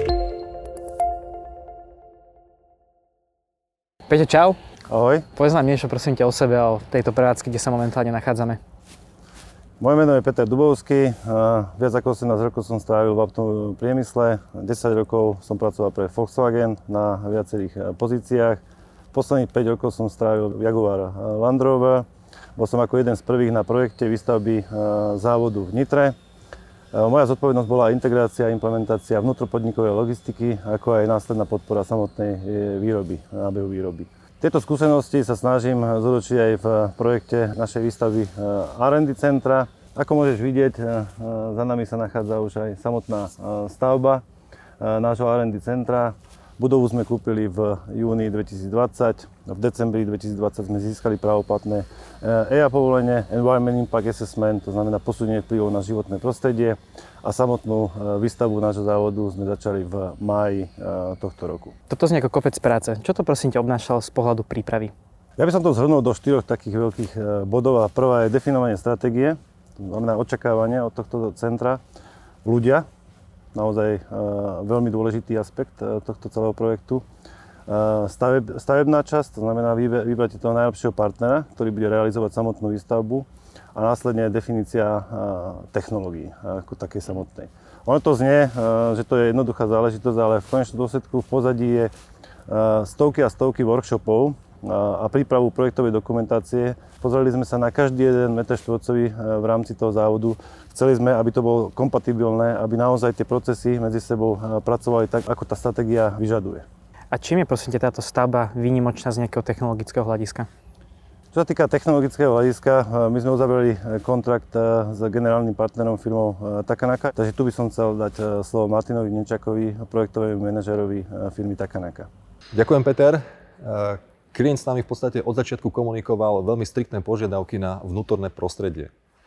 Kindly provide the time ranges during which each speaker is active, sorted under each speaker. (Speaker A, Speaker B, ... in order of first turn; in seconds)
Speaker A: 4.1-4.6, 5.4-8.6, 61.9-64.9, 107.1-110.5
Speaker B: 4.9-5.2, 9.8-18.6, 19.1-26.1, 26.9-44.2, 44.8-61.7, 65.4-71.8, 72.5-72.8, 73.5-77.0, 77.7-91.9, 92.5-106.7, 111.3-122.1
Speaker C: 122.5-128.9